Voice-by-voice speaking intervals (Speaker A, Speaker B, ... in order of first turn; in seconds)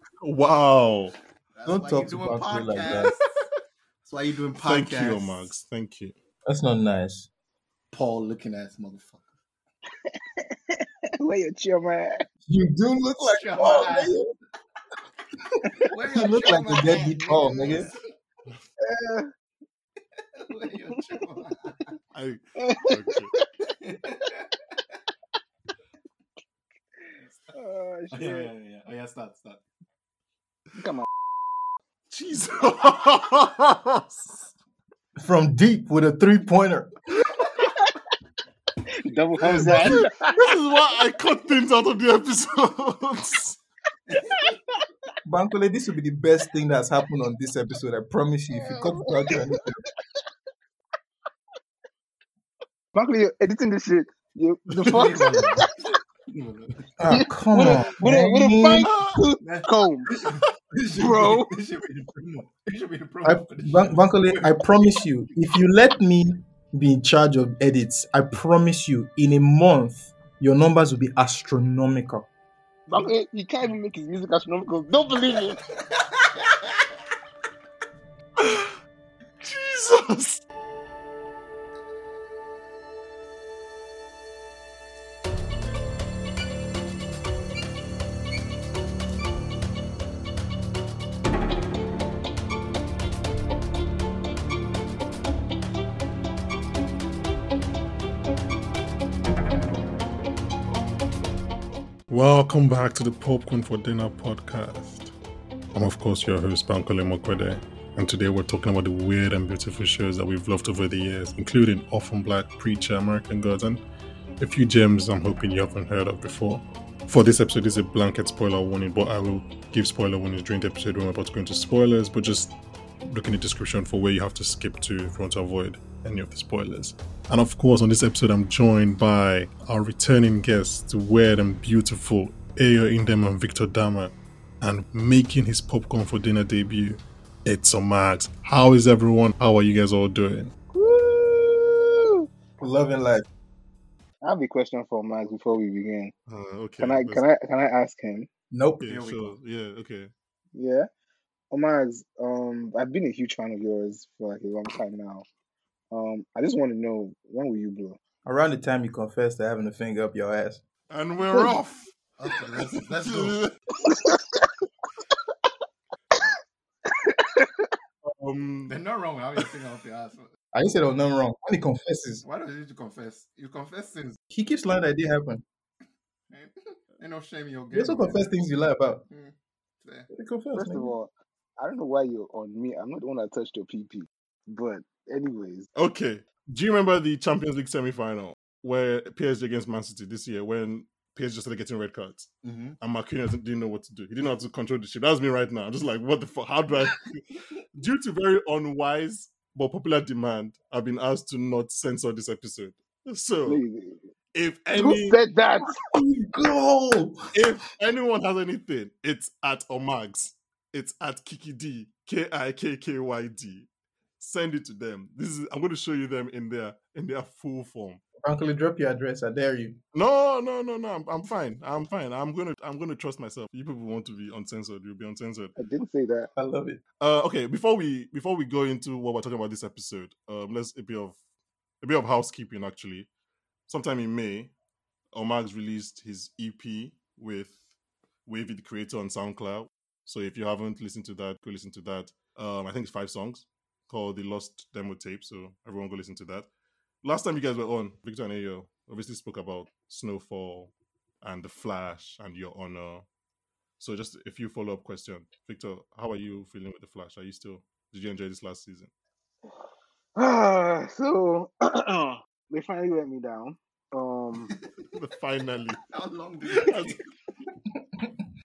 Speaker A: 0.2-1.1, 4.6-6.1, 22.1-23.3, 32.1-34.5, 39.5-43.6, 58.8-59.2, 78.4-78.7, 79.4-80.4, 102.1-105.1, 105.7-113.8, 114.4-122.5, 123.0-140.5, 146.3-147.2, 148.8-150.1, 160.9-161.9, 163.0-163.5, 168.0-168.8, 185.8-197.2, 197.8-203.6, 204.3-205.2, 207.3-213.7, 214.2-218.0, 219.9-225.5, 227.0-231.2, 231.8-233.1, 233.7-234.5, 235.1-237.7, 238.3-246.5, 247.0-253.1, 253.8-258.9, 264.9-265.8, 266.5-267.0
Speaker B: 1.5-3.5, 4.0-5.5, 7.9-9.3, 13.3-14.1, 15.8-18.0, 20.4-21.9, 23.8-24.5, 27.2-27.5, 28.1-29.6, 54.8-55.7, 56.3-56.9, 59.4-64.6, 148.8-149.4, 162.2-163.5, 168.7-170.3, 172.2-174.2, 176.3-178.4, 179.1-180.1, 192.4-192.8, 265.9-267.0
Speaker C: 1.7-3.1, 6.5-7.3, 12.5-14.2, 16.1-17.9, 35.2-36.9, 45.2-49.8, 57.0-59.0, 63.2-72.3, 142.6-143.3, 148.5-148.9, 158.2-160.6, 161.3-161.6, 170.5-172.2, 174.3-175.4, 177.7-179.1, 180.1-180.9, 205.8-207.4, 218.2-219.8, 226.4-226.8
Speaker D: 10.8-12.2, 18.8-19.3, 22.6-23.5, 27.5-28.5, 30.8-31.1, 39.0-40.3, 44.2-44.5, 48.6-49.4, 53.0-55.7, 57.1-60.1, 61.0-61.5, 72.9-75.6, 140.7-142.3, 144.2-146.1, 146.8-148.3, 150.6-150.9, 151.5-155.2, 155.9-158.0, 163.9-164.4, 166.9-167.7, 180.6-185.7, 203.5-204.0, 204.7-205.8, 225.6-226.3, 260.2-264.5